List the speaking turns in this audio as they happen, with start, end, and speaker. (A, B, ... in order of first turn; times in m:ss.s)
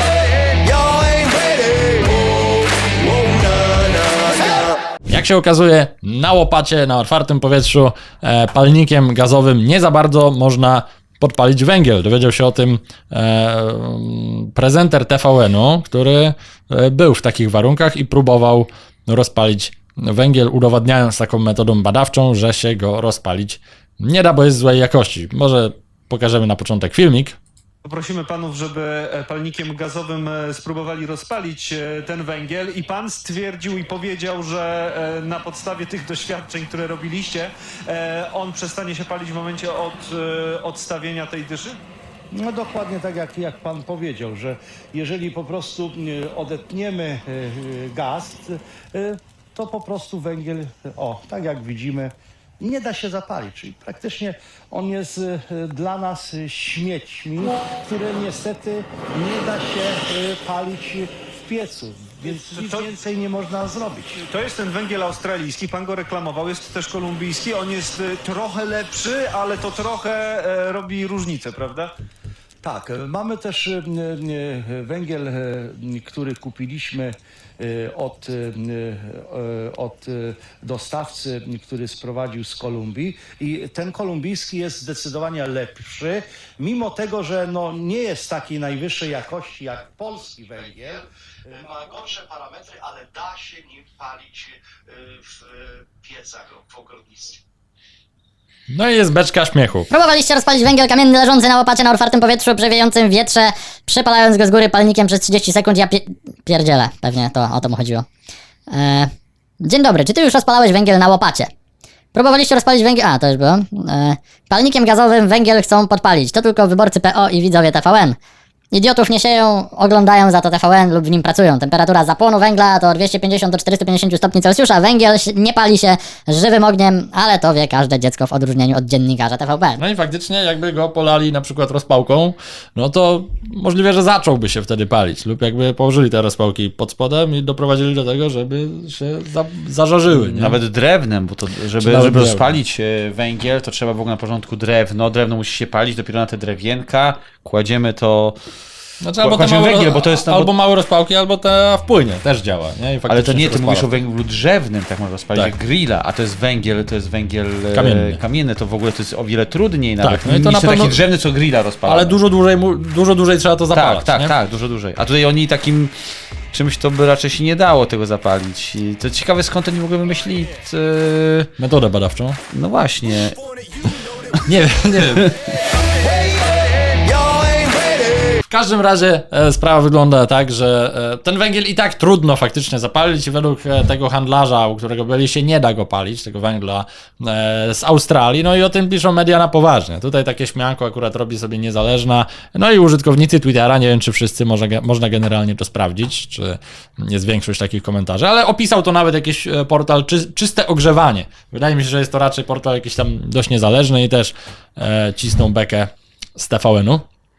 0:05.1-0:27.4 A
0:27.8-0:41.8 B
0:42.3-1:04.2 C
1:02.4-1:02.9 B
1:04.2-1:11.9 B
1:12.6-1:34.5 C
1:35.0-1:37.4 C
1:38.7-1:39.9 A
1:39.9-1:48.0 D
1:48.7-1:51.5 D
1:52.1-1:58.2 D
1:58.7-2:09.8 D
2:09.8-2:20.6 A
2:20.1-2:28.4 E
2:21.8-2:22.6 A
2:29.0-2:33.9 A
2:29.2-2:30.5 E
2:33.1-2:42.2 E
2:37.7-2:38.2 A
2:40.0-2:41.0 A
2:41.9-2:44.3 A
2:43.7-2:46.0 E
2:46.5-2:51.5 E
2:51.6-2:52.4 A
2:52.5-2:53.4 E
2:54.4-2:55.4 A
2:58.4-3:27.1 A